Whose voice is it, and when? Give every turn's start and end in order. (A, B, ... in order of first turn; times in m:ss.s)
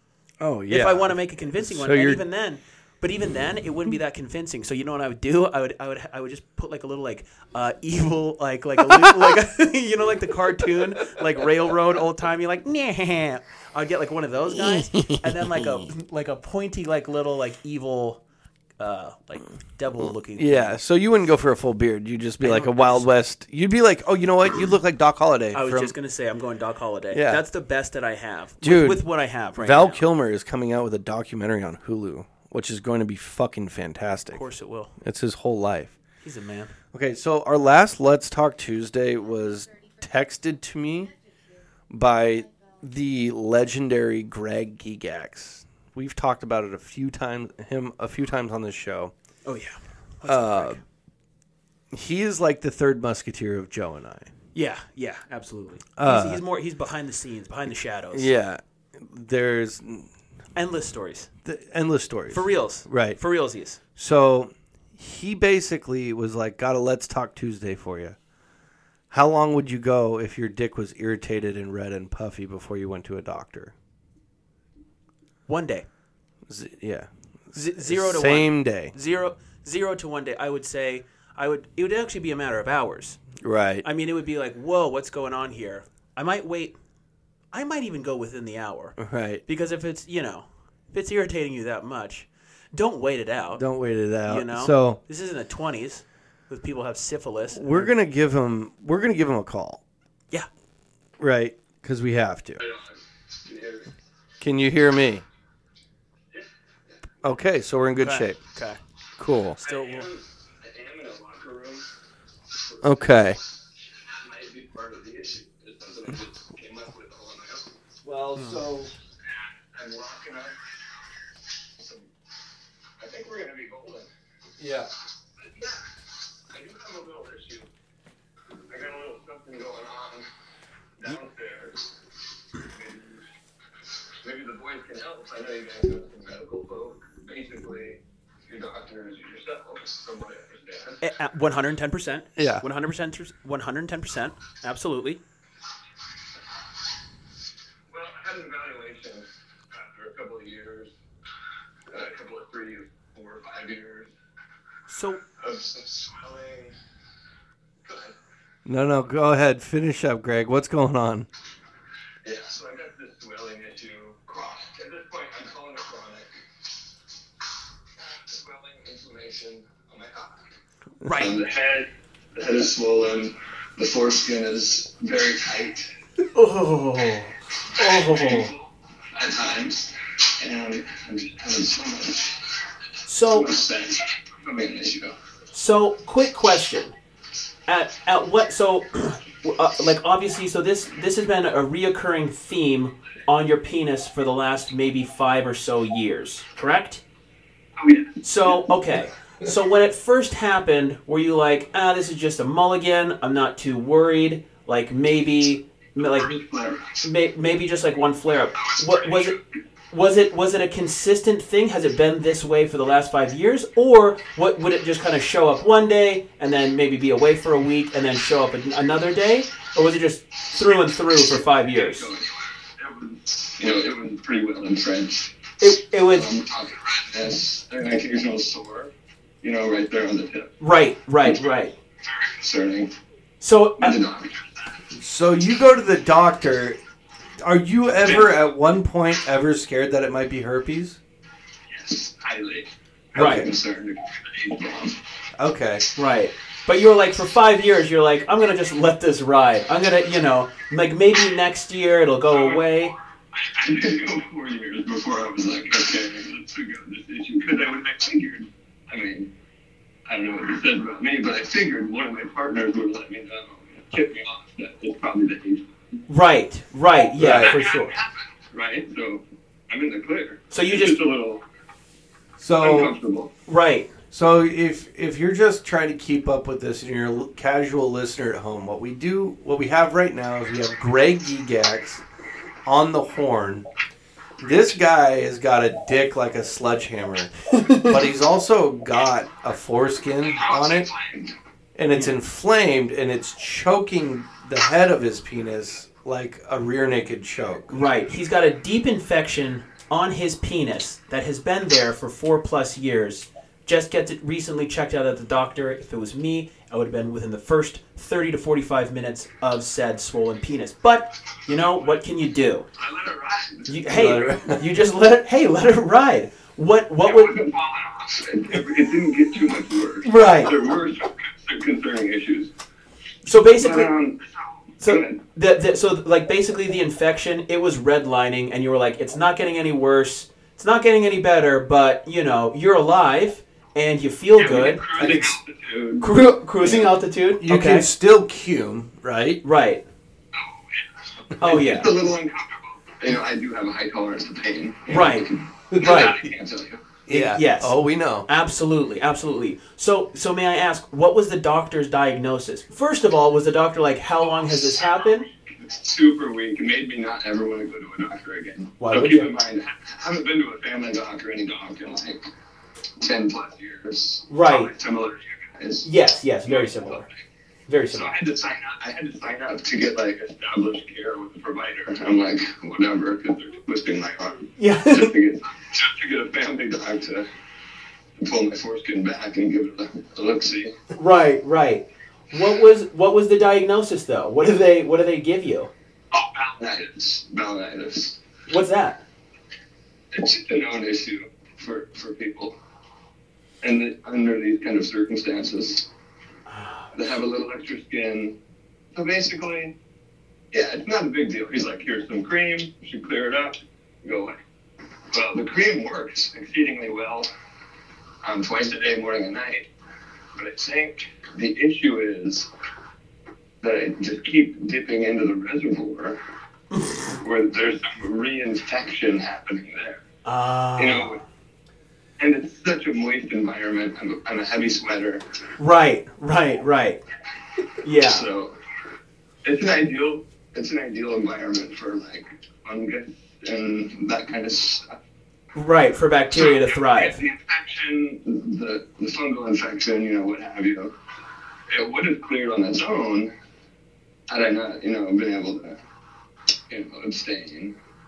0:00.4-0:02.2 A
0:00.7-0:18.2 B
0:14.7-0:15.9 A
0:18.8-0:20.8 B
0:20.3-0:25.9 A
0:22.4-0:23.1 B
0:25.5-0:30.0 B
0:27.1-0:27.4 A
0:28.6-0:34.4 A
0:34.3-0:34.9 B
0:35.0-0:36.0 A
0:36.2-0:36.7 B
0:36.9-0:41.1 A
0:41.9-0:49.1 A
0:49.4-0:50.8 B
0:50.2-0:50.8 A
0:51.9-0:54.3 A
0:54.5-0:58.3 B
0:56.0-0:56.4 A
0:58.1-1:00.1 A
1:00.5-1:01.3 B
1:01.4-1:03.2 A
1:02.3-1:03.8 B
1:04.0-1:08.2 A
1:09.1-1:13.7 A
1:15.5-1:15.9 B
1:16.5-1:18.9 A
1:17.5-1:23.2 B
1:23.4-1:23.8 A
1:23.8-1:26.8 B
1:27.5-1:33.6 B
1:29.0-1:29.4 A
1:33.6-1:35.0 A
1:34.2-1:37.9 B
1:37.5-1:39.8 A
1:41.2-1:42.6 A
1:42.6-1:43.9 C
1:44.4-1:45.2 A
1:47.2-1:48.4 A
1:48.0-1:48.8 B
1:49.2-1:49.6 A
1:49.6-1:50.1 B
1:49.6-1:51.9 C
1:52.8-1:53.4 A
1:54.0-1:57.7 C
1:58.0-1:58.9 A
1:58.3-1:58.6 B
1:59.7-2:00.5 C
2:01.8-2:02.0 C
2:03.0-2:04.1 C
2:04.6-2:04.9 A
2:05.4-2:05.8 C
2:06.5-2:07.7 C
2:08.7-2:10.2 C
2:11.0-2:11.9 C
2:12.6-2:13.2 C
2:14.2-2:21.0 C
2:21.0-2:25.2 B
2:22.4-2:22.6 A
2:27.9-2:30.9 C
2:31.9-2:34.1 C
2:34.9-2:35.2 B
2:35.4-2:36.7 C
2:37.8-2:38.1 C
2:38.6-2:41.3 A
2:42.2-2:46.3 C
2:48.0-2:50.3 C
2:51.0-2:51.4 B
2:51.1-2:55.9 C
2:56.3-2:58.5 B
2:57.8-3:02.5 C
3:03.0-3:03.5 B
3:03.3-3:05.1 C
3:05.5-3:06.9 B
3:07.7-3:17.0 B
3:17.8-3:18.2 C
3:18.2-3:26.4 B
3:26.0-3:27.0 C
3:27.0-3:29.4 B
3:28.6-3:29.3 C
3:29.9-3:42.1 B
3:41.7-3:45.3 C
3:45.6-3:46.3 B
3:46.1-3:50.5 C
3:50.6-3:51.8 B
3:52.0-3:52.9 C
3:53.4-3:54.0 B
3:53.8-3:54.7 C
3:54.9-3:56.8 A
3:57.4-4:01.0 A
4:01.7-4:05.0 C
4:03.1-4:03.5 B
4:05.4-4:05.8 A
4:06.0-4:12.9 B
4:12.3-4:19.3 C
4:20.1-4:26.0 C
4:26.1-4:27.9 B
4:27.2-4:27.6 A
4:27.2-4:31.4 C
4:30.5-4:31.0 B
4:32.4-4:32.9 A
4:32.6-4:33.3 C
4:33.5-4:33.9 B
4:34.1-4:42.0 A
4:42.6-4:43.6 A
4:44.4-4:47.3 A
4:47.5-4:48.0 B
4:47.8-4:50.9 A
4:50.3-4:51.3 C
4:51.8-4:57.7 A
4:57.7-5:12.7 B
5:12.8-5:14.2 C
5:13.7-5:17.3 B
5:13.9-5:14.6 A
5:17.0-5:22.5 C
5:20.0-5:20.6 B
5:23.2-5:23.9 B
5:23.5-5:25.2 C
5:24.8-5:34.8 B
5:34.4-5:36.1 C
5:35.0-5:35.3 A
5:36.0-5:37.9 B
5:36.6-5:36.9 C
5:37.4-5:39.4 A
5:39.4-5:39.8 B
5:40.3-5:46.8 C
5:41.4-5:41.9 B
5:44.9-5:46.3 B
5:47.1-5:48.3 A
5:47.1-5:55.2 B
5:54.8-6:02.2 C
5:58.8-5:59.3 B
6:03.0-6:05.9 C
6:04.3-6:04.7 B
6:05.8-6:07.0 B
6:06.5-6:07.1 C
6:07.7-6:08.1 B
6:07.9-6:17.3 C
6:14.6-6:15.1 B
6:18.2-6:20.7 C
6:20.9-6:25.7 B
6:26.1-6:28.2 C
6:28.5-6:29.0 B
6:30.1-6:32.6 C
6:33.6-6:35.9 C
6:36.5-6:36.9 B
6:36.9-6:38.4 C
6:38.9-6:39.7 C
6:40.5-6:44.4 C
6:45.1-6:47.3 C
6:48.2-6:49.7 C
6:50.4-6:52.5 C
6:53.6-6:56.2 C
6:57.1-7:00.0 C
7:00.2-7:01.2 B
7:00.8-7:01.2 C
7:02.2-7:05.2 C
7:05.6-7:07.0 B
7:07.8-7:08.2 B
7:08.0-7:08.5 C
7:09.4-7:15.0 C
7:15.5-7:17.2 B
7:16.3-7:20.9 C
7:21.7-7:23.3 C
7:24.3-7:25.8 C
7:26.7-7:27.7 C